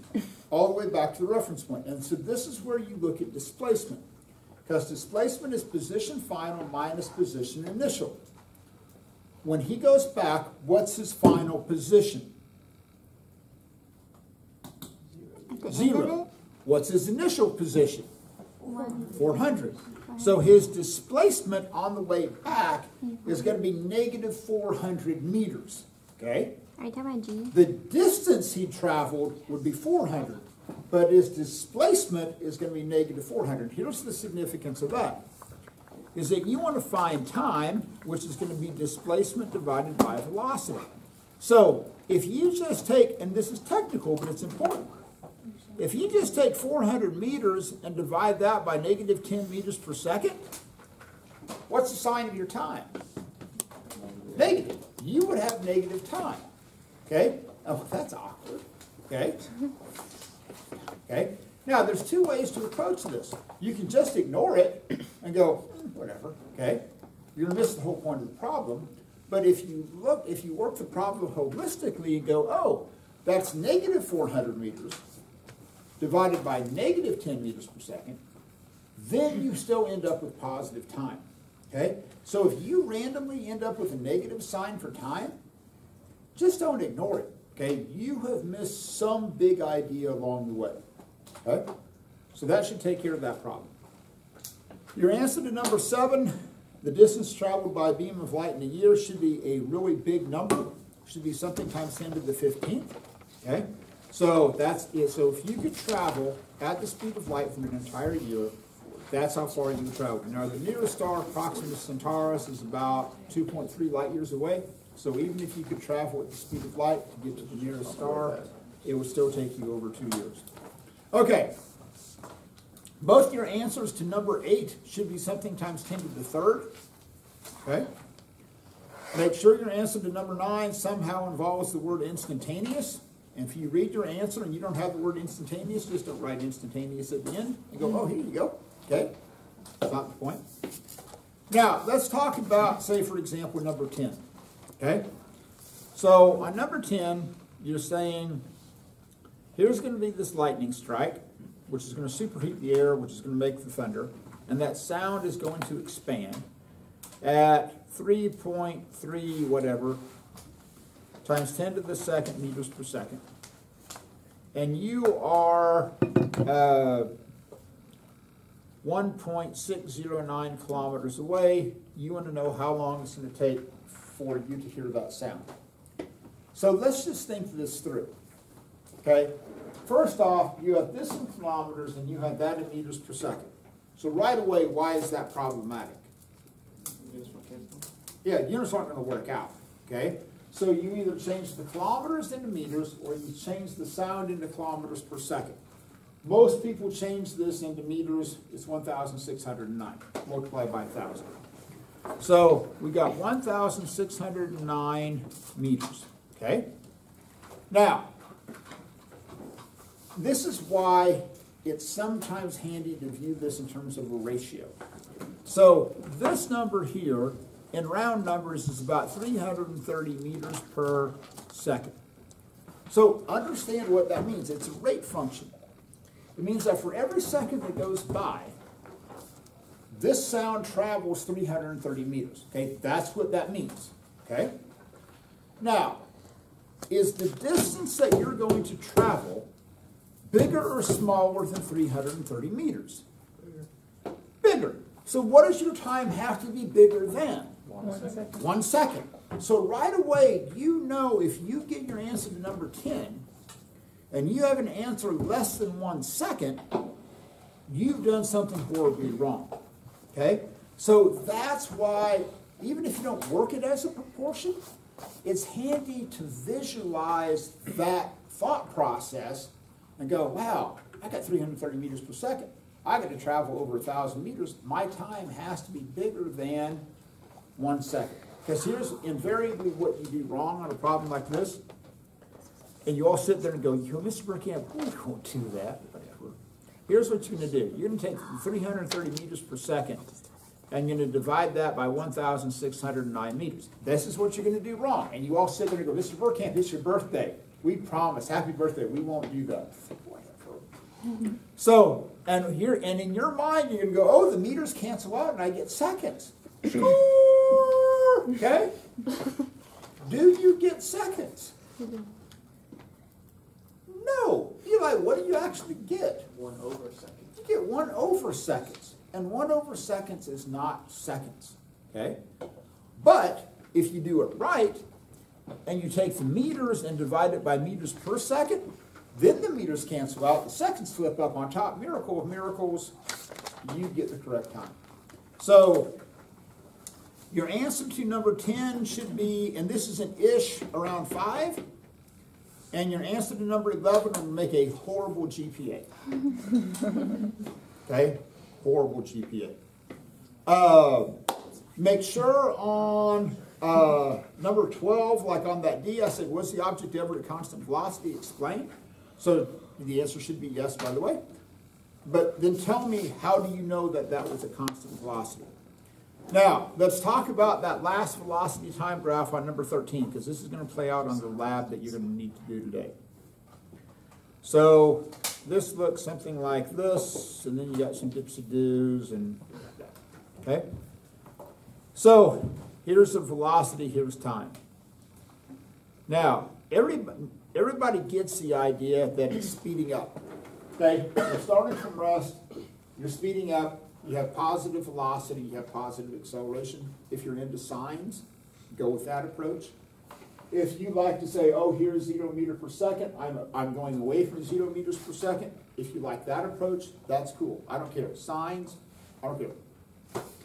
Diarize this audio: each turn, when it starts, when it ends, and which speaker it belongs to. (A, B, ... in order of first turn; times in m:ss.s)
0:00.5-0:04.0 A
0:04.7-0:08.2 A
0:09.4-0:12.3 A
0:15.5-0:16.3 B
0:15.7-0:18.1 A
0:18.6-0:19.1 B
0:19.1-0:26.6 A
0:26.8-0:27.5 B
0:27.5-0:35.2 A
0:36.1-0:45.0 A
0:45.8-0:50.4 A
0:51.7-0:52.9 A
0:54.0-0:54.3 C
0:54.3-0:56.4 A
0:57.1-0:59.5 A
1:01.1-1:06.8 A
1:07.4-1:15.0 A
1:16.0-1:18.2 A
1:18.9-1:25.4 A
1:26.4-1:30.8 A
1:31.4-1:31.7 A
1:32.3-1:33.7 A
1:34.9-1:48.6 A
1:49.1-2:00.4 A
1:58.1-1:58.5 C
2:01.1-2:01.5 A
2:03.0-2:06.7 A
2:07.6-2:07.9 A
2:09.1-2:19.1 A
2:19.8-2:20.4 A
2:21.5-2:24.2 A
2:24.8-2:25.1 A
2:25.9-2:28.4 A
2:29.6-2:36.4 A
2:37.2-2:40.0 A
2:41.2-2:43.2 A
2:44.5-2:47.1 A
2:48.8-2:55.5 A
2:56.5-2:58.1 A
2:59.0-3:06.1 A
3:07.0-3:07.8 C
3:08.2-3:15.6 A
3:16.2-3:21.4 A
3:22.2-3:26.7 A
3:27.7-3:28.1 A
3:30.1-3:34.8 A
3:35.4-3:42.0 A
3:42.9-3:45.5 A
3:46.4-3:48.6 A
3:49.9-3:54.5 A
3:55.6-3:56.0 A
3:56.9-3:59.5 A
4:00.3-4:03.0 A
4:04.4-4:07.6 A
4:07.7-4:08.3 C
4:08.2-4:13.2 A
4:14.1-4:16.6 A
4:17.7-4:19.6 A
4:20.1-4:24.6 A
4:25.2-4:36.8 A
4:37.6-4:41.6 A
4:42.8-4:46.3 A
4:46.9-4:50.0 A
4:50.7-5:00.6 A
5:01.6-5:08.8 A
5:10.0-5:11.5 A
5:13.9-5:16.3 A
5:16.3-5:17.4 C
5:17.4-5:22.2 A
5:23.0-5:24.8 A
5:25.6-5:32.9 A
5:33.6-5:34.8 A
5:35.4-5:36.0 A
5:37.3-5:41.6 A
5:42.7-5:45.9 A
5:47.9-5:49.6 A
5:50.4-5:51.2 A
5:51.8-6:01.2 A
6:02.0-6:05.5 A
6:06.3-6:12.9 A
6:14.4-6:19.9 A
6:20.4-6:20.7 A
6:21.9-6:24.6 A
6:26.1-6:30.2 A
6:30.8-6:32.4 A
6:33.0-6:39.7 A
6:40.5-6:49.6 A